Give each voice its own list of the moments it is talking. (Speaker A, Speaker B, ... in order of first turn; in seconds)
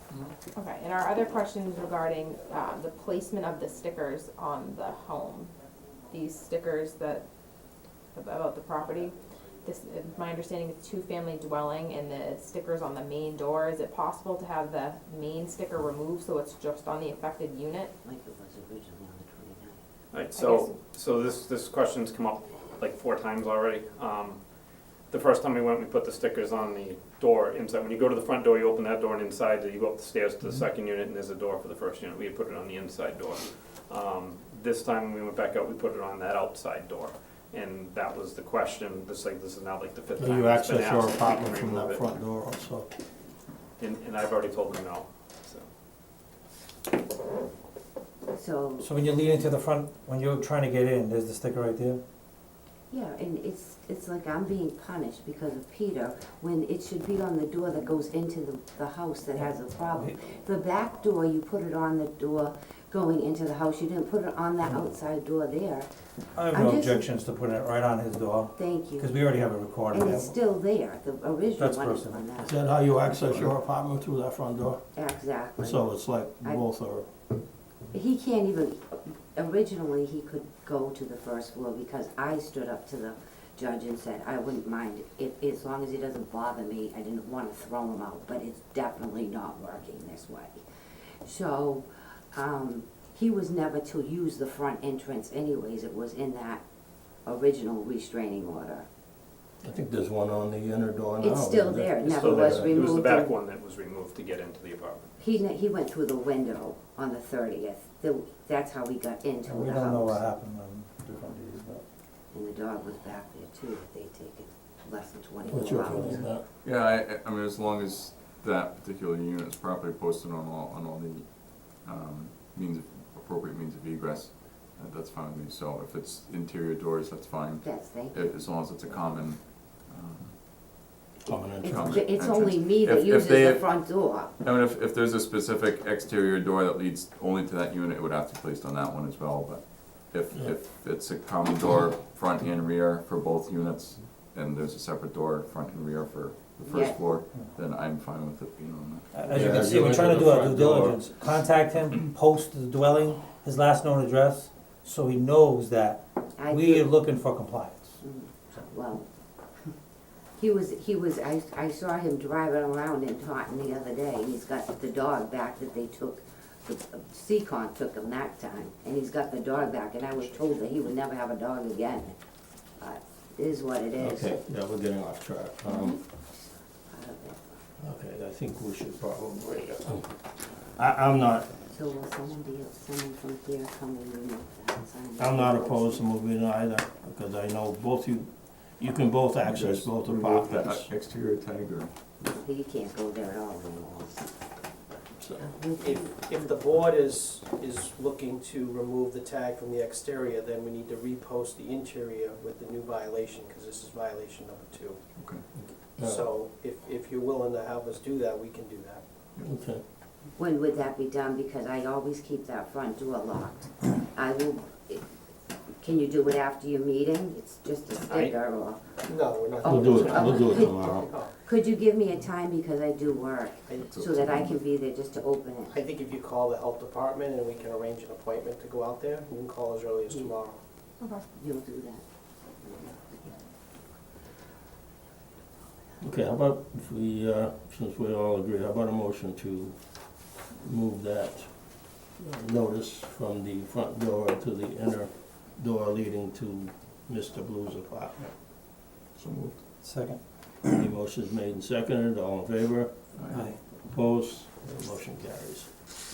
Speaker A: 0.5-5.5, 6.1-7.2, 8.1-17.9, 20.3-20.7, 231.0-231.2
Speaker B: 18.0-19.8, 48.3-48.9, 52.9-65.9, 66.5-67.1, 68.5-69.2, 69.9-72.7, 74.9-75.9, 77.9-90.6, 91.2-96.6, 97.2-98.8, 101.2-103.3, 105.2-110.2, 112.3-116.2, 127.6-128.4, 131.7-134.3, 146.7-147.1, 156.3-156.9, 158.0-159.1, 160.4-172.1, 172.8-174.3, 175.9-177.6, 181.7-186.0, 192.2-194.3, 195.4-196.5, 210.4-215.0, 215.8-218.8, 219.6-225.7, 231.3-232.0, 232.6-233.4
Speaker C: 20.1-24.4, 25.1-42.0, 43.8-45.7, 102.0-105.1, 218.1-218.3
Speaker D: 40.2-42.9, 72.4-74.8, 75.6-77.1, 99.6-102.8, 115.5-116.4, 131.2-131.9, 149.3-151.0, 174.0-176.0, 177.8-180.2, 180.7-181.5, 185.2-190.9, 195.2-195.5, 205.5-206.3, 209.4-209.8, 219.6-221.1, 236.0-248.4, 250.6-253.1, 253.7-255.7
Speaker E: 48.8-52.0, 59.4-60.2, 66.3-70.3, 71.5-72.3, 109.4-111.8, 115.9-116.3, 149.1-158.0, 249.8-250.2, 253.3-253.6
Speaker F: 116.6-130.4, 131.6-149.8, 189.4-191.9, 205.2-205.4, 223.8-224.6
Speaker G: 195.8-205.0, 206.0-209.0, 219.1-221.3, 225.7-230.6